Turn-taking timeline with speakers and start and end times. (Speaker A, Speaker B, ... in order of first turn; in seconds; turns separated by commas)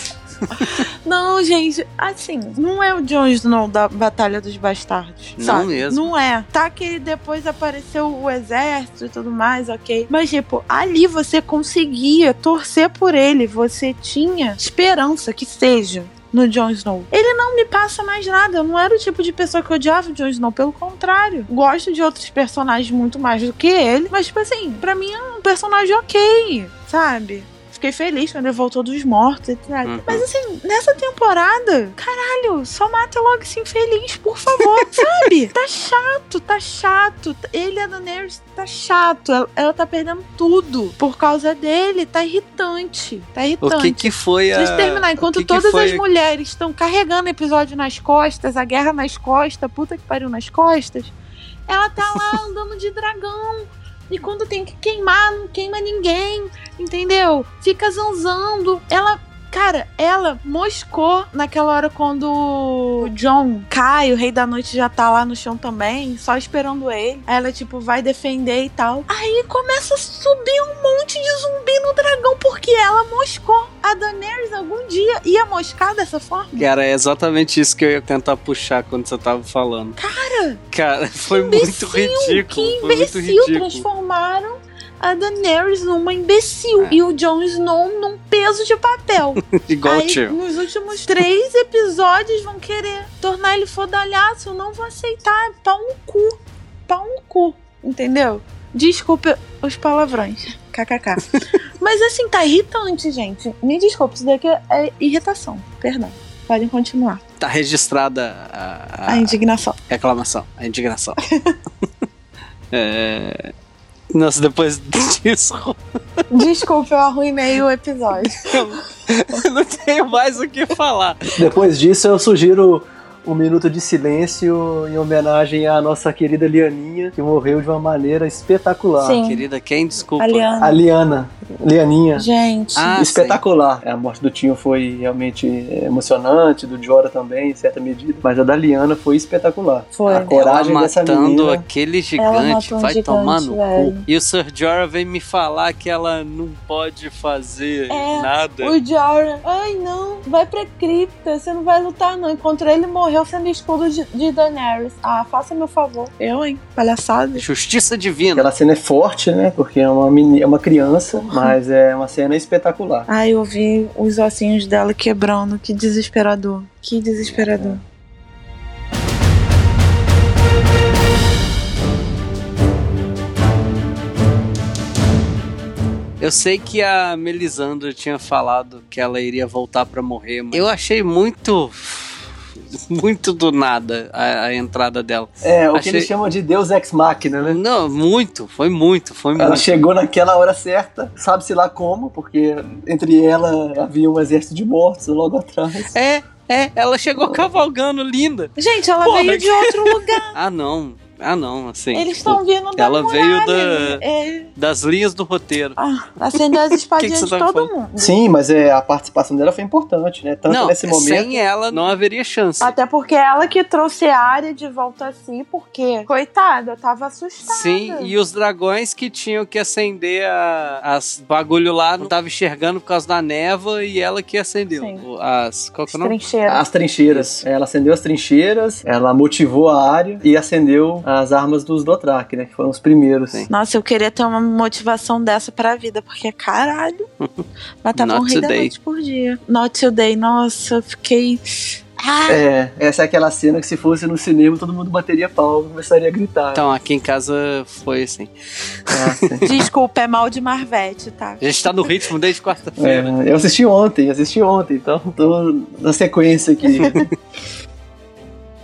Speaker A: 0.5-51.1, Speaker B: 0.6-0.8, Speaker B: 5.4-6.1, Speaker B: 29.9-30.3, Speaker B: 34.8-35.1, Speaker B: 43.6-46.0, Speaker A: 51.7-76.7, Speaker B: 76.5-80.0, Speaker A: 80.0-80.6, Speaker B: 80.7-83.8, Speaker A: 81.2-107.2, Speaker B: 89.4-90.4, Speaker B: 107.4-109.4, Speaker A: 109.1-109.8, Speaker B: 109.9-111.2, Speaker A: 111.3-111.6, Speaker B: 112.7-113.5, Speaker B: 114.1-115.8, Speaker A: 116.3-118.6, Speaker B: 118.3-121.4, Speaker C: 121.4-129.2, Speaker A: 129.0-129.4, Speaker B: 129.2-130.5, Speaker A: 130.2-130.8, Speaker C: 130.6-132.3, Speaker A: 132.2-133.0, Speaker B: 132.8-133.4, Speaker C: 133.0-141.6, Speaker A: 139.9-140.3, Speaker B: 140.1-148.8, Speaker A: 142.2-144.1, Speaker A: 147.9-157.4, Speaker B: 157.4-158.5, Speaker C: 158.3-163.1, Speaker A: 161.1-161.6, Speaker A: 163.1-167.8, Speaker B: 167.2-167.5, Speaker B: 176.2-186.1, Speaker C: 185.4-187.6, Speaker B: 187.4-189.8, Speaker C: 189.4-195.9, Speaker B: 195.9-198.5, Speaker A: 198.6-200.3, Speaker B: 199.0-204.0, Speaker A: 201.9-204.5, Speaker B: 204.6-205.8, Speaker A: 205.8-208.2, Speaker B: 206.5-207.7, Speaker C: 208.0-211.4, Speaker B: 210.5-212.8, Speaker A: 212.6-218.1, Speaker B: 217.5-226.2, Speaker A: 224.8-225.1, Speaker A: 225.9-226.6, Speaker C: 226.5-233.5, Speaker B: 227.1-227.4, Speaker A: 233.5-237.1, Speaker A: 237.8-241.4, Speaker B: 238.0-238.7, Speaker A: 242.0-242.4, Speaker C: 242.3-246.6, Speaker B: 246.5-249.4, Speaker C: 248.9-249.4, Speaker A: 249.4-251.9, Speaker B: 251.4-253.1, Speaker C: 252.8-257.0